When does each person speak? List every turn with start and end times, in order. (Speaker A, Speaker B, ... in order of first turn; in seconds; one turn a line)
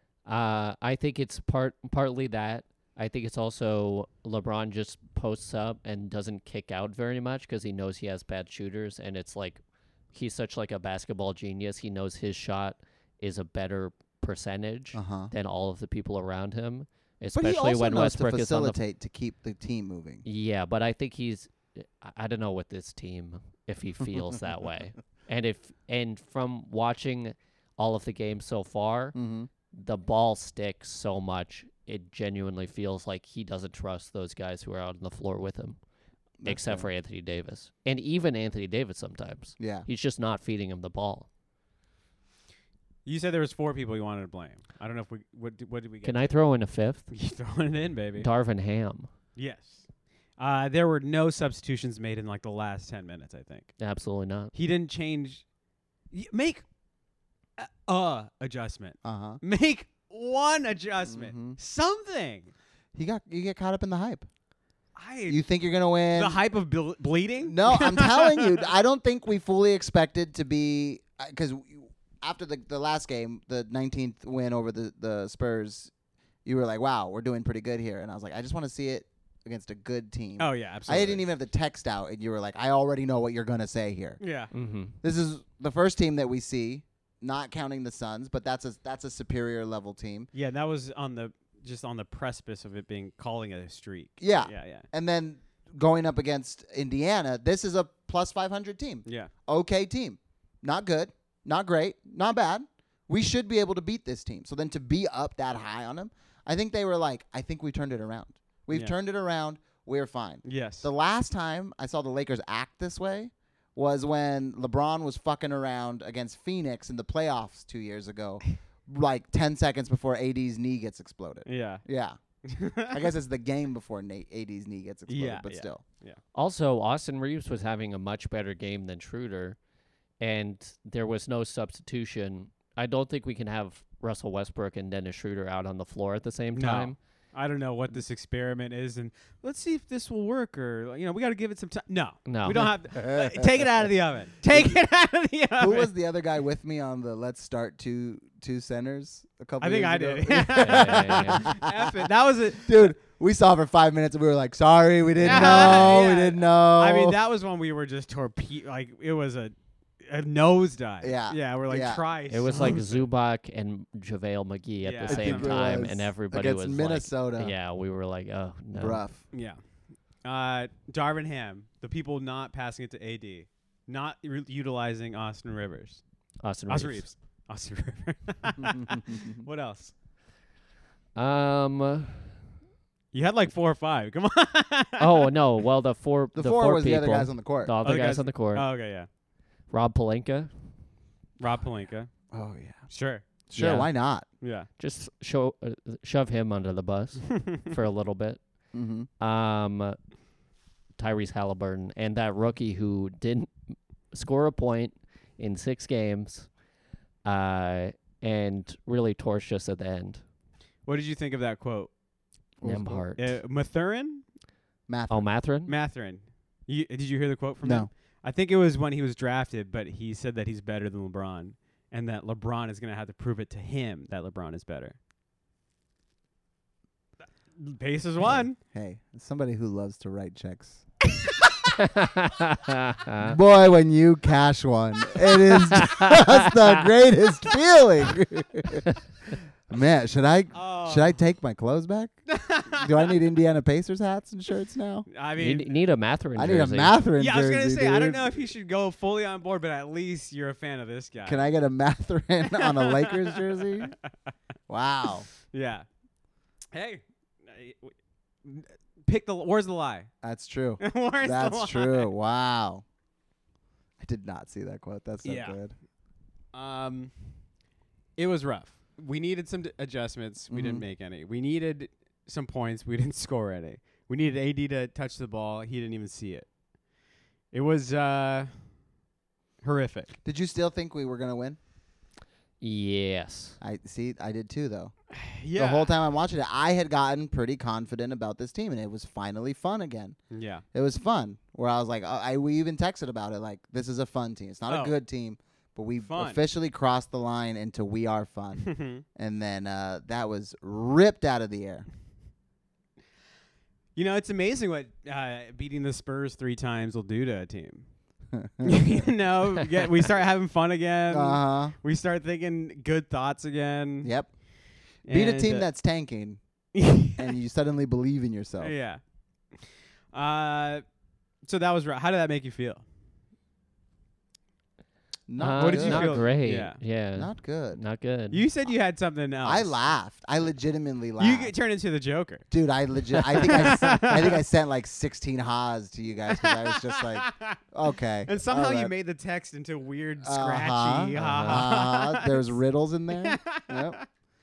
Speaker A: 0.2-18.8
Speaker B: 14.9-15.3
Speaker B: 17.3-20.2
Speaker A: 20.2-29.1
Speaker B: 29.1-29.5
Speaker A: 29.7-35.8
Speaker B: 36.4-36.9
Speaker A: 36.4-41.3
Speaker B: 39.6-39.9
Speaker C: 43.0-46.3
Speaker A: 46.0-47.1
Speaker C: 47.1-48.3
Speaker A: 48.2-49.1
Speaker C: 49.4-49.9
Speaker C: 50.4-53.8
Speaker A: 53.8-54.5
Speaker C: 54.5-55.4
Speaker C: 56.1-56.6
Speaker C: 57.6-62.5
Speaker B: 59.0-59.4
Speaker B: 61.0-61.6
Speaker B: 62.9-64.3
Speaker C: 65.0-65.4
Speaker B: 65.3-66.4
Speaker C: 66.1-68.7
Speaker B: 67.4-75.9
Speaker B: 76.4-84.2
Speaker C: 80.4-81.2
Speaker C: 84.2-84.5
Speaker A: 84.5-85.0
Speaker B: 85.0-90.3
Speaker C: 90.3-94.8
Speaker B: 94.2-122.2
Speaker C: 99.0-99.3
Speaker C: 110.4-110.9
Speaker C: 121.5-121.8
Speaker C: 122.4-123.0
Speaker B: 122.9-125.8
Speaker C: 125.1-126.2
Speaker A: 126.3-129.6
Speaker A: 130.2-137.0
Speaker C: 136.5-145.9
Speaker A: 142.2-142.7
Speaker B: 143.0-143.4
Speaker B: 144.5-144.8
Speaker B: 145.6-157.2
Speaker C: 149.6-152.9
Speaker A: 150.6-151.5
Speaker A: 155.2-156.0
Speaker C: 155.2-163.1
Speaker B: 161.0-162.0
Speaker A: 162.3-169.0
Speaker C: 164.8-165.7
Speaker B: 165.1-167.5
Speaker B: 168.7-169.2
Speaker C: 169.3-169.6
Speaker C: 170.2-176.0
Speaker A: 176.4-177.1
Speaker C: 176.7-179.9
Speaker B: 179.1-179.3
Speaker A: 181.2-182.3
Speaker C: 183.1-185.3
Speaker A: 185.0-188.7
Speaker B: 186.3-187.7
Speaker C: 187.8-189.1
Speaker A: 189.7-190.5
Speaker C: 191.4-192.1
Speaker B: 192.3-192.9
Speaker C: 192.9-193.2
Speaker B: 193.5-194.2
Speaker A: 193.5-193.9
Speaker C: 194.4-194.7
Speaker A: 194.8-198.4
Speaker B: 198.7-199.1
Speaker A: 199.2-200.0
Speaker A: 201.0-203.5
Speaker A: 204.1-206.5
Speaker A: 207.2-210.2
Speaker C: 210.8-211.9
Speaker B: 212.6-213.0
Speaker A: 212.6-213.3
Speaker C: 213.2-214.2
Speaker B: 214.9-215.2
Speaker A: 215.1-215.7
Speaker C: 215.7-225.0
Speaker B: 217.6-217.9
Speaker C: 227.6-228.6
Speaker B: 228.7-230.8
Speaker C: 231.2-231.6
Speaker A: 231.8-233.3
Speaker B: 233.2-238.8
Speaker A: 235.7-236.5
Speaker B: 239.7-242.2
Speaker C: 240.5-241.1
Speaker C: 242.3-243.2
Speaker B: 242.7-245.1
Speaker C: 245.1-245.8
Speaker A: 245.4-247.0
Speaker B: 246.3-248.4
Speaker C: 247.2-251.5
Speaker B: 251.2-253.9
Speaker C: 252.5-253.9
Speaker B: 254.7-255.3
Speaker C: 255.5-255.8
Speaker C: 256.7-257.9
Speaker C: 258.4-260.1
Speaker B: 260.2-262.8
Speaker C: 260.8-262.1
Speaker B: 264.0-265.7
Speaker C: 265.2-265.6
Speaker C: 266.5-267.1
Speaker C: 268.2-276.5
Speaker B: 270.5-270.8
Speaker C: 277.5-278.5
Speaker C: 279.6-280.1
Speaker B: 280.2-281.6
Speaker A: 282.6-283.6
Speaker B: 283.6-284.9
Speaker C: 285.1-285.9
Speaker B: 285.5-290.2
Speaker C: 290.3-290.6
Speaker B: 290.7-301.9
Speaker C: 294.7-294.9
Speaker C: 296.0-296.4
Speaker C: 298.6-299.0
Speaker C: 303.9-307.8
Speaker B: 308.3-309.0
Speaker C: 308.6-314.1
Speaker B: 311.1-311.8
Speaker B: 314.0-314.3
Speaker C: 315.0-315.7
Speaker B: 315.1-316.4
Speaker C: 316.7-317.4
Speaker B: 317.2-318.7
Speaker C: 318.6-319.0
Speaker C: 319.6-320.8
Speaker C: 321.4-322.8
Speaker B: 325.3-326.2
Speaker A: 325.4-328.4
Speaker C: 325.6-326.8
Speaker B: 327.1-327.8
Speaker C: 328.3-329.9
Speaker B: 329.4-331.5
Speaker C: 331.2-332.5
Speaker B: 332.5-338.9
Speaker C: 333.2-334.4
Speaker C: 336.3-337.6
Speaker C: 338.3-342.5
Speaker B: 340.2-344.0
Speaker A: 341.1-341.7
Speaker C: 343.1-344.0